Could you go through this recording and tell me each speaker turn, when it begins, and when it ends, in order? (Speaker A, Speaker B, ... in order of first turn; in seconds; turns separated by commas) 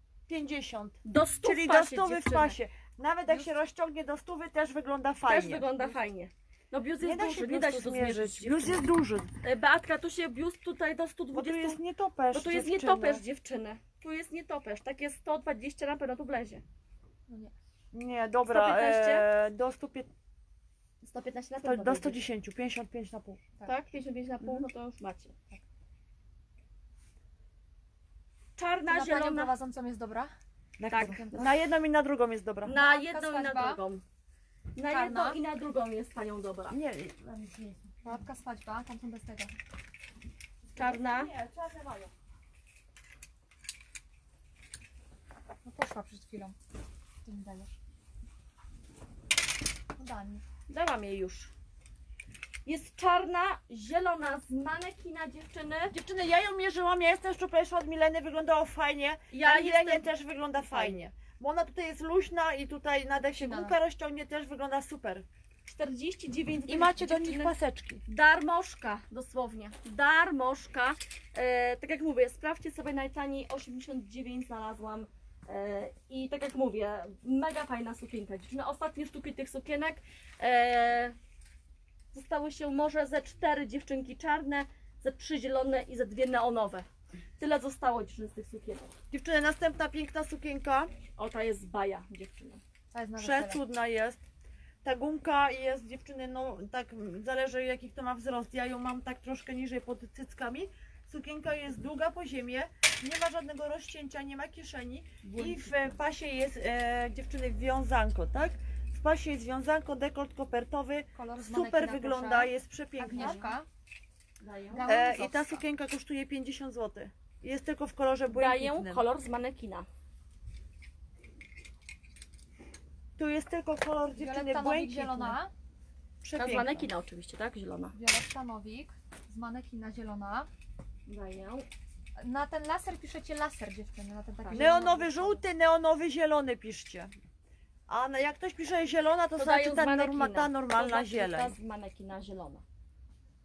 Speaker A: 0.3-5.7, Speaker B: 1.1-2.6, Speaker B: 5.3-8.8, Speaker A: 7.0-9.3, Speaker B: 9.4-11.8, Speaker A: 11.3-13.2, Speaker B: 12.3-16.6, Speaker C: 17.3-17.5, Speaker A: 17.9-20.1, Speaker B: 18.5-19.3, Speaker B: 21.0-22.2, Speaker A: 21.6-23.4, Speaker B: 23.6-25.3, Speaker B: 28.6-29.5, Speaker C: 28.9-30.3, Speaker A: 30.8-32.8, Speaker B: 30.9-31.5, Speaker C: 30.9-31.5, Speaker B: 32.6-34.0, Speaker C: 32.7-33.8, Speaker B: 34.7-36.8, Speaker C: 34.9-35.4, Speaker A: 36.7-38.2, Speaker C: 38.0-39.5, Speaker A: 40.7-42.1, Speaker B: 40.8-41.3, Speaker C: 45.6-46.5, Speaker C: 47.2-47.8, Speaker C: 50.0-50.4, Speaker B: 50.7-51.5, Speaker B: 52.6-55.9, Speaker A: 55.9-65.2, Speaker B: 59.3-60.0, Speaker B: 60.7-61.0, Speaker C: 63.3-63.8, Speaker B: 65.7-67.5, Speaker A: 66.7-68.0, Speaker B: 68.1-81.1, Speaker B: 82.1-86.9, Speaker B: 87.4-88.9, Speaker A: 89.1-90.9, Speaker B: 91.2-92.6, Speaker C: 92.9-93.6, Speaker A: 93.2-94.2, Speaker A: 94.8-113.5, Speaker B: 105.2-105.9, Speaker C: 111.1-113.7, Speaker B: 113.1-113.4, Speaker B: 114.4-115.0, Speaker C: 114.7-115.6, Speaker A: 114.8-119.0, Speaker B: 118.3-119.8, Speaker A: 123.2-125.4, Speaker C: 124.2-125.5, Speaker A: 126.2-126.9, Speaker B: 126.3-127.9, Speaker C: 127.9-130.5, Speaker B: 131.1-131.7, Speaker C: 132.2-135.4, Speaker B: 134.4-134.7, Speaker A: 134.5-137.1, Speaker A: 137.9-141.5, Speaker B: 139.4-142.6